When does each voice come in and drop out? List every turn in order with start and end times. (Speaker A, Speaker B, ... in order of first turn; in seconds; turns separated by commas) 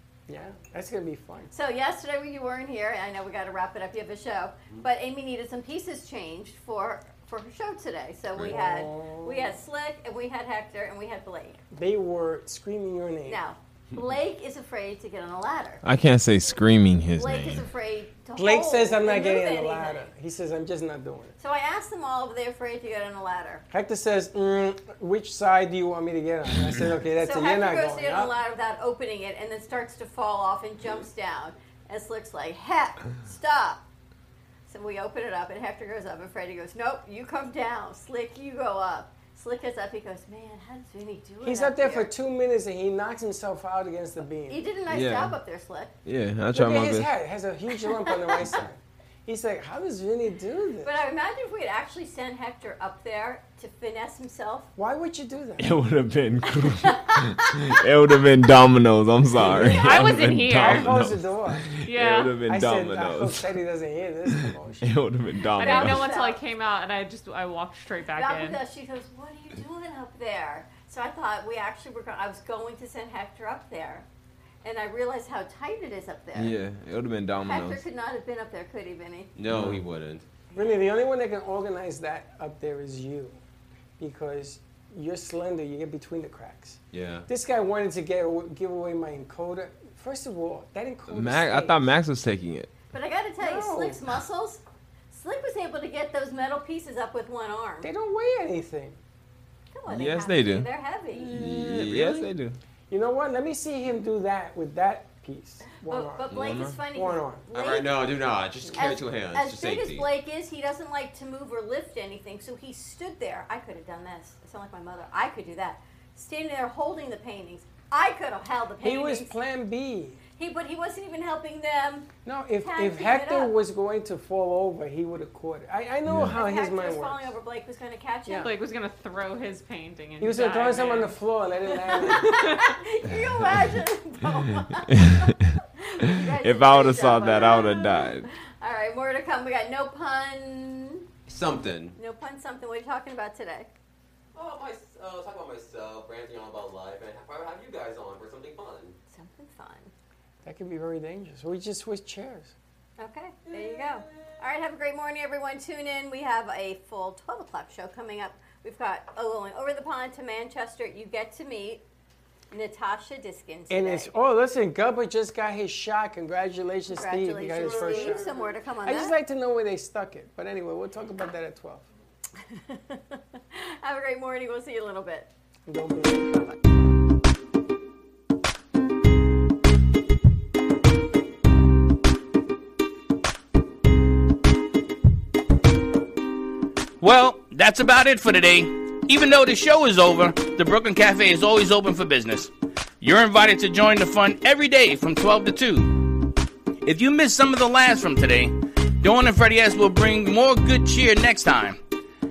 Speaker A: 0.3-1.5, Speaker B: 1.5-11.6, Speaker A: 8.4-9.6, Speaker A: 11.7-13.4, Speaker B: 13.3-15.8, Speaker C: 15.8-17.7, Speaker B: 17.2-20.1, Speaker A: 18.4-21.4, Speaker B: 21.4-23.6, Speaker A: 23.7-28.3, Speaker B: 27.2-33.8, Speaker B: 34.7-42.1, Speaker A: 41.4-44.6, Speaker B: 44.5-45.9, Speaker C: 44.9-45.4, Speaker C: 46.0-47.1, Speaker A: 46.5-50.9, Speaker B: 47.7-48.5, Speaker B: 50.8-54.7, Speaker A: 54.8-55.8, Speaker C: 55.6-63.5, Speaker B: 56.6-57.8, Speaker A: 59.3-61.7, Speaker D: 59.6-61.0, Speaker D: 61.9-62.4, Speaker A: 62.4-65.0, Speaker C: 64.3-66.1, Speaker D: 65.6-68.6, Speaker B: 65.6-66.4, Speaker B: 68.2-74.1, Speaker B: 74.6-76.5, Speaker C: 76.3-77.8, Speaker B: 77.4-79.3, Speaker E: 79.4-80.3, Speaker C: 79.5-79.8, Speaker B: 80.5-80.8, Speaker A: 80.5-83.4, Speaker A: 84.0-91.9, Speaker E: 86.9-87.3, Speaker C: 91.1-92.7, Speaker B: 92.9-97.9, Speaker A: 93.4-94.0, Speaker A: 97.8-99.0, Speaker B: 99.7-101.3, Speaker C: 99.9-100.7, Speaker A: 101.1-102.3, Speaker C: 101.3-102.6, Speaker E: 101.7-102.2, Speaker A: 102.9-106.3, Speaker B: 105.8-108.0, Speaker E: 106.3-106.6, Speaker C: 106.3-106.8, Speaker A: 106.9-107.5, Speaker E: 107.5-110.1, Speaker B: 108.7-119.3, Speaker A: 118.8-120.2, Speaker B: 120.4-122.1, Speaker A: 122.2-127.4, Speaker B: 122.6-123.6, Speaker C: 126.0-126.4, Speaker B: 126.2-128.5, Speaker D: 128.4-131.2, Speaker A: 130.2-132.6, Speaker B: 131.7-141.1, Speaker D: 132.3-132.7, Speaker C: 133.1-133.6, Speaker C: 135.0-135.6, Speaker C: 136.3-138.3, Speaker E: 141.3-142.0, Speaker B: 142.0-143.7, Speaker E: 144.3-149.0, Speaker B: 149.1-149.9, Speaker A: 150.4-152.5, Speaker B: 153.0-161.8, Speaker B: 162.5-164.1, Speaker A: 163.7-171.9, Speaker B: 166.9-169.2, Speaker B: 172.4-175.3, Speaker A: 175.7-176.5, Speaker F: 187.0-195.9, Speaker F: 196.8-201.8